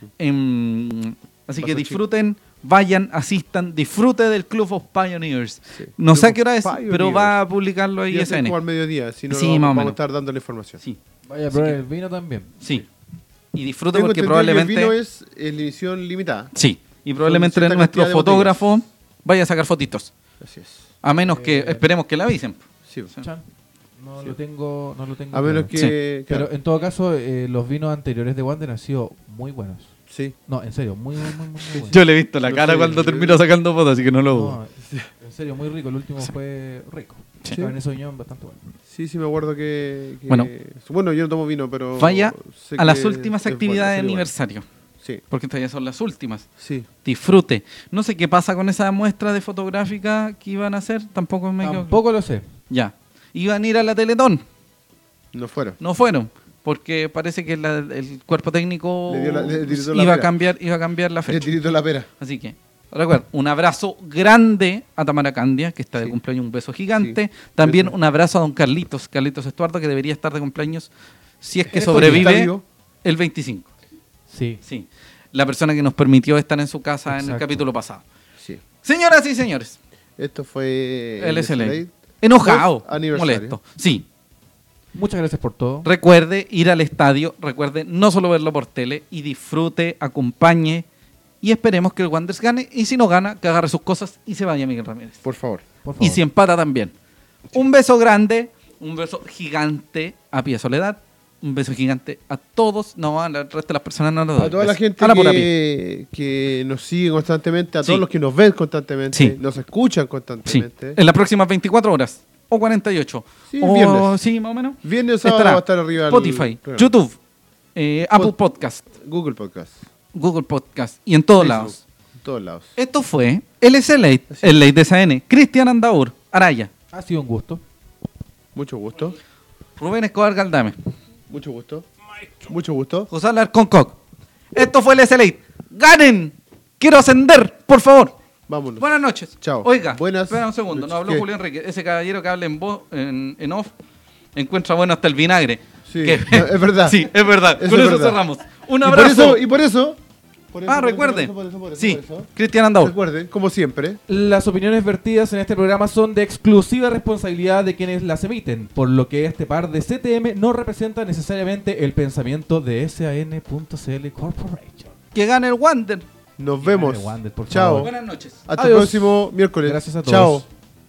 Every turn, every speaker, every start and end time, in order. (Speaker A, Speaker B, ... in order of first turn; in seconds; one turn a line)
Speaker A: 0.2-8.6
Speaker B: 1.6-2.0
Speaker B: 5.8-7.4
Speaker B: 8.1-10.8
Speaker A: 9.3-10.0
Speaker C: 11.3-12.5
Speaker A: 11.5-11.8
Speaker A: 13.5-14.9
Speaker B: 13.9-16.5
Speaker A: 16.6-20.1
Speaker B: 17.2-18.8
Speaker B: 20.4-20.9
Speaker A: 21.0-23.2
Speaker C: 21.3-21.9
Speaker B: 22.9-23.1
Speaker C: 23.2-23.5
Speaker C: 24.0-29.9
Speaker B: 25.3-26.5
Speaker B: 30.1-30.4
Speaker C: 30.5-32.0
Speaker B: 31.7-33.4
Speaker A: 31.9-34.6
Speaker C: 34.3-38.7
Speaker B: 34.8-35.1
Speaker B: 37.5-37.8
Speaker B: 38.9-44.3
Speaker A: 42.0-44.7
Speaker A: 45.3-46.5
Speaker B: 46.6-46.9
Speaker A: 47.0-52.0
Speaker C: 51.6-52.5
Speaker A: 52.7-54.4
Speaker B: 55.3-55.8
Speaker A: 55.8-61.5
Speaker B: 59.1-60.3
Speaker B: 61.2-62.1
Speaker A: 62.2-70.9
Speaker B: 67.0-68.0
Speaker A: 71.4-73.7
Speaker B: 71.7-72.6
Speaker C: 71.8-72.3
Speaker C: 74.3-74.6
Speaker A: 74.7-78.0
Speaker C: 77.1-77.7
Speaker A: 78.8-79.8
Speaker B: 80.2-83.6
Speaker A: 81.2-84.1
Speaker C: 85.0-85.9
Speaker A: 85.8-90.9
Speaker A: 91.4-95.2
Speaker B: 95.2-95.6
Speaker C: 95.8-96.2
Speaker A: 96.0-96.9
Speaker A: 97.5-105.5
Speaker B: 104.4-111.0
Speaker A: 110.5-117.2
Speaker B: 113.5-114.2
Speaker B: 114.8-116.9
Speaker A: 117.8-118.9
Speaker B: 119.0-119.8
Speaker A: 120.1-121.8
Speaker B: 121.4-122.7
Speaker A: 122.8-126.7
Speaker B: 124.3-124.6
Speaker C: 126.9-127.6
Speaker B: 128.6-129.2
Speaker A: 129.8-130.9
Speaker B: 131.3-131.9
Speaker B: 132.5-133.1
Speaker A: 133.1-134.0
Speaker A: 134.5-138.1
Speaker B: 138.5-141.3
Speaker A: 138.8-143.7
Speaker A: 144.4-149.4
Speaker B: 145.9-148.2
Speaker B: 148.8-150.0
Speaker B: 150.5-154.0
Speaker A: 150.7-152.9
Speaker C: 154.1-164.9
Speaker A: 165.2-166.1
Speaker B: 166.4-167.9
Speaker C: 166.6-167.9
Speaker A: 167.8-168.5
Speaker B: 168.5-170.5
Speaker C: 168.6-170.4